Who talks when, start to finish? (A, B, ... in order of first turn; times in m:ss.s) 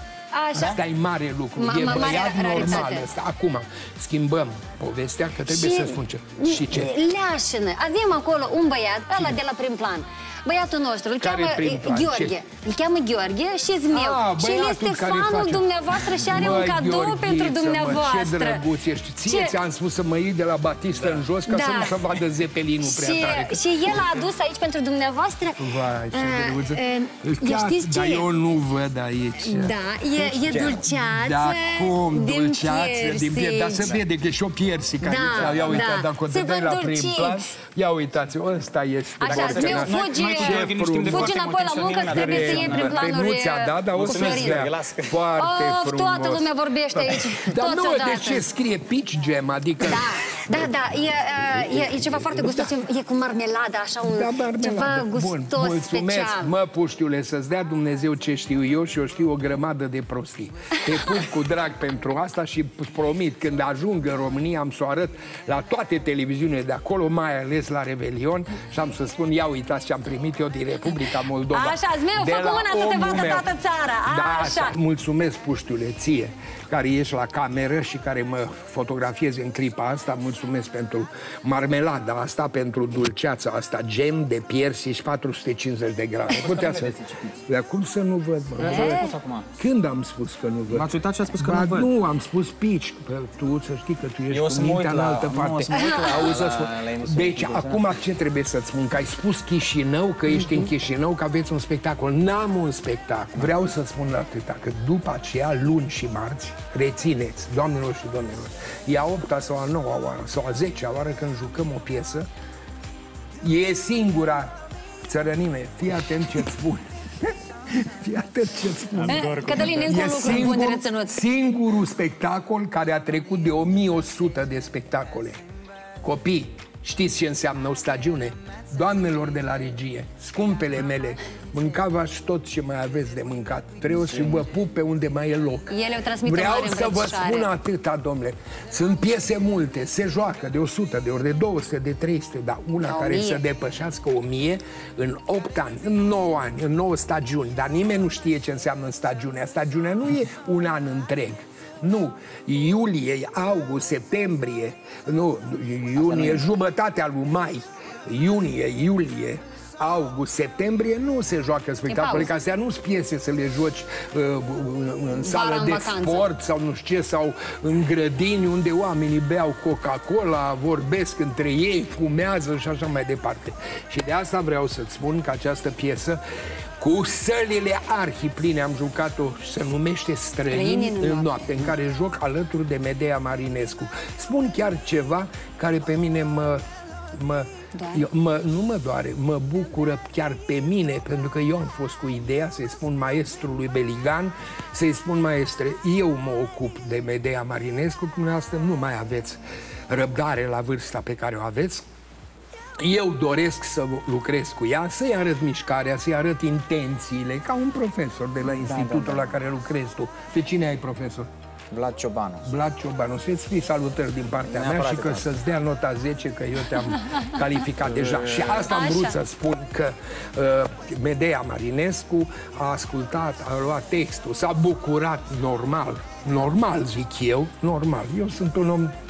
0:00.3-0:00.8 A
0:00.5-0:07.0 B
0:01.6-0:03.1 A
0:05.4-0:18.6 A
0:09.1-0:09.4 B
0:11.2-0:12.4 B
0:13.9-0:24.2 B
0:19.2-0:19.6 A
0:21.4-0:22.0 A
0:22.8-0:28.3 A
0:25.5-0:41.4 B
0:29.4-0:34.0 A
0:30.5-0:30.8 C
0:35.0-0:37.5 A
0:35.0-0:35.9 C
0:39.2-0:44.6 A
0:39.3-0:43.1 C
0:42.0-0:50.8 B
0:43.9-0:45.1 C
0:45.4-0:48.4 A
0:49.8-0:56.5 A
0:51.4-0:52.8 B
0:54.0-1:52.3 B
1:11.5-1:14.8 A
1:26.3-1:27.3 C
1:28.6-1:29.5 C
1:28.6-1:29.1 A
1:30.7-1:31.9 C
1:34.3-1:37.9 C
1:35.7-1:36.2 A
1:53.4-1:54.5 B
1:55.0-2:05.4 B
1:59.0-2:00.1 C
1:59.0-2:01.2 A
2:06.0-2:56.2 B
2:15.7-2:17.5 A
2:22.8-2:23.4 A
2:36.0-2:36.4 C
2:41.9-2:42.3 A
2:45.1-2:46.3 A
2:56.8-3:06.6 B
3:00.5-3:01.6 A
3:07.1-3:21.8 B
3:07.7-3:08.0 A
3:22.8-3:31.3 B
3:28.5-3:29.2 C
3:31.7-3:32.5 C
3:32.4-3:48.9 B
3:34.5-3:35.3 C
3:38.0-3:38.5 C
3:38.7-3:39.2 A